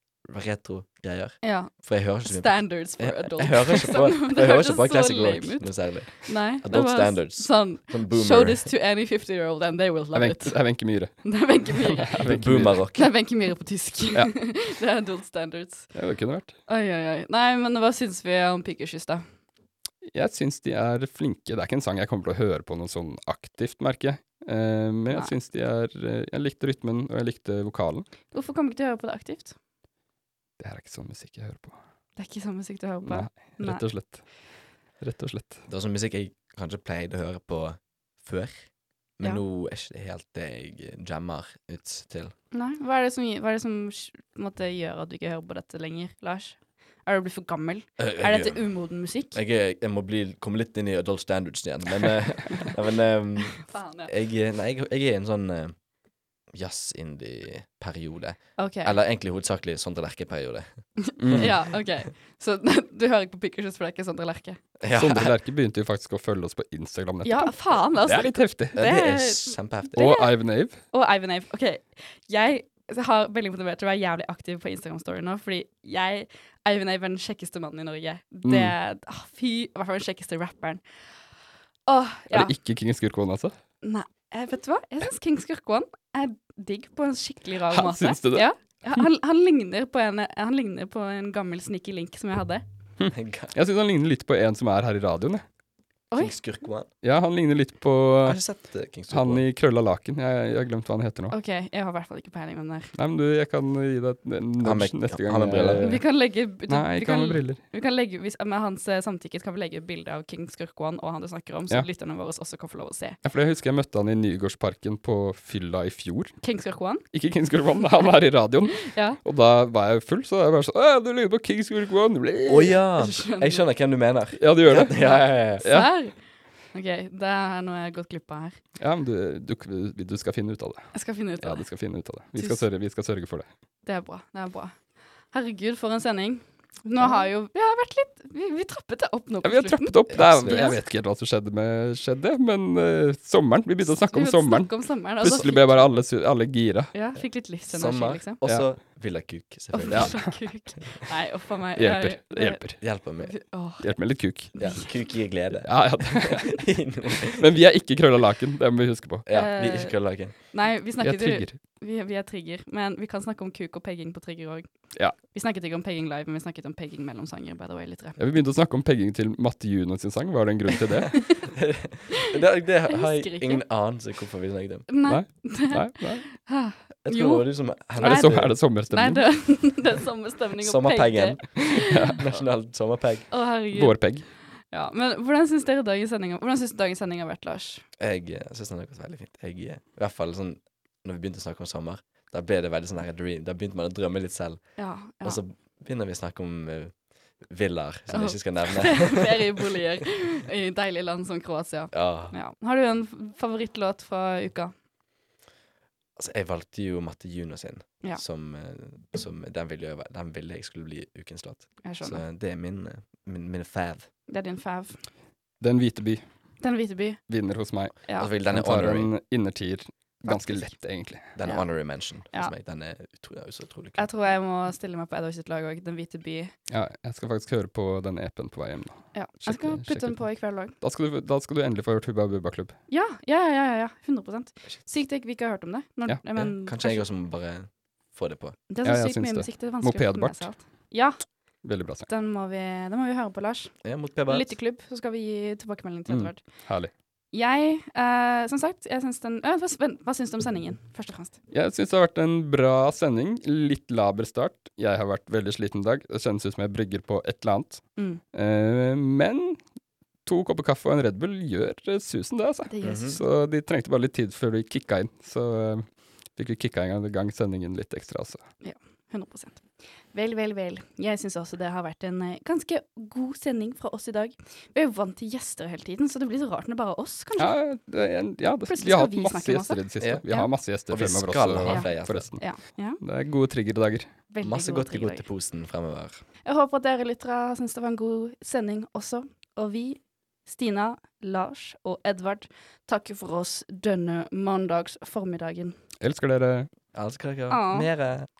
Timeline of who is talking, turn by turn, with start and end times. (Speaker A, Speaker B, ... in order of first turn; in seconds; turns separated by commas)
Speaker A: 0.2-8.7, Speaker B: 1.4-1.7, Speaker B: 2.2-10.6, Speaker C: 10.1-12.8, Speaker B: 11.2-12.2, Speaker A: 12.2-13.1, Speaker B: 12.9-15.9, Speaker C: 15.9-16.5, Speaker B: 16.7-19.2, Speaker C: 20.1-28.1, Speaker B: 28.3-29.6, Speaker C: 30.6-31.8, Speaker B: 32.2-33.8, Speaker C: 33.0-34.2, Speaker C: 35.0-35.6, Speaker A: 35.7-38.6, Speaker A: 39.2-42.3, Speaker B: 42.5-49.4, Speaker A: 48.0-48.7, Speaker A: 49.3-55.7, Speaker B: 53.6-54.1, Speaker A: 56.5-60.7, Speaker B: 58.6-59.0, Speaker B: 61.0-64.6, Speaker C: 61.2-61.6, Speaker A: 61.2-61.5, Speaker A: 64.8-65.3, Speaker C: 64.9-68.8, Speaker B: 67.2-80.8, Speaker A: 68.7-70.2, Speaker C: 69.9-70.8, Speaker C: 78.5-78.7, Speaker B: 81.9-82.5, Speaker C: 82.3-83.5, Speaker B: 83.8-92.6, Speaker C: 87.7-89.0, Speaker C: 93.0-95.4, Speaker A: 93.1-93.5, Speaker A: 96.2-96.9, Speaker C: 97.0-98.4, Speaker A: 98.2-99.4, Speaker C: 99.1-101.3, Speaker B: 101.3-102.9, Speaker C: 103.0-106.0, Speaker A: 104.6-106.0, Speaker B: 105.8-113.2, Speaker C: 106.7-107.6, Speaker C: 113.2-116.4, Speaker B: 116.4-117.0, Speaker C: 117.1-122.8, Speaker B: 118.8-119.2, Speaker A: 122.5-125.7, Speaker B: 123.0-123.7, Speaker C: 124.4-125.9, Speaker B: 125.0-126.1, Speaker B: 126.7-128.6, Speaker C: 128.8-133.5, Speaker B: 130.9-131.7, Speaker B: 132.3-132.6, Speaker B: 133.8-134.7, Speaker B: 135.3-140.8, Speaker C: 139.4-146.9, Speaker A: 140.1-140.8, Speaker B: 143.8-146.0, Speaker B: 146.9-148.4, Speaker A: 147.7-150.2, Speaker B: 149.7-152.6, Speaker C: 149.9-150.3, Speaker C: 151.8-152.8, Speaker A: 152.8-153.3, Speaker B: 153.2-153.9, Speaker C: 153.8-154.5, Speaker B: 154.5-154.9, Speaker A: 154.6-157.4, Speaker C: 155.6-156.7, Speaker C: 157.2-159.3, Speaker A: 159.2-160.3, Speaker B: 159.3-168.2, Speaker C: 161.0-161.6, Speaker C: 168.2-171.3, Speaker A: 171.5-174.9, Speaker B: 172.9-173.6, Speaker B: 174.9-182.1, Speaker C: 175.1-176.3, Speaker A: 177.0-178.5, Speaker C: 178.0-179.3, Speaker A: 180.6-183.3, Speaker C: 181.7-182.2, Speaker B: 183.3-184.1, Speaker C: 183.7-184.3, Speaker B: 184.7-187.8, Speaker A: 188.0-194.7, Speaker B: 194.8-195.4, Speaker A: 195.2-199.5, Speaker B: 198.1-204.7, Speaker A: 201.9-202.3, Speaker A: 206.2-214.1, Speaker B: 211.8-212.2, Speaker B: 214.3-215.0, Speaker C: 215.6-216.2, Speaker B: 216.6-217.2, Speaker C: 217.3-221.3, Speaker A: 218.2-219.1, Speaker A: 220.2-220.7, Speaker A: 221.3-224.0, Speaker B: 221.4-221.7, Speaker B: 222.3-222.5, Speaker B: 224.0-226.5, Speaker C: 226.7-232.7, Speaker B: 229.1-230.7, Speaker B: 232.9-237.1, Speaker A: 236.3-238.6, Speaker B: 238.7-241.2, Speaker C: 238.8-240.5, Speaker C: 241.6-242.1, Speaker B: 242.1-246.4, Speaker A: 243.8-244.5, Speaker C: 246.1-246.9, Speaker B: 247.3-251.3, Speaker C: 251.5-259.6, Speaker C: 260.2-265.8, Speaker B: 262.7-263.2, Speaker A: 262.8-263.2, Speaker C: 266.4-268.4, Speaker B: 268.6-277.5, Speaker C: 277.4-284.1, Speaker B: 278.7-280.5, Speaker A: 280.0-280.2, Speaker A: 280.9-282.3, Speaker B: 281.6-283.0, Speaker B: 284.3-285.3, Speaker A: 284.4-286.2, Speaker B: 286.4-295.8, Speaker C: 296.0-296.7, Speaker A: 296.9-298.3, Speaker B: 297.5-297.9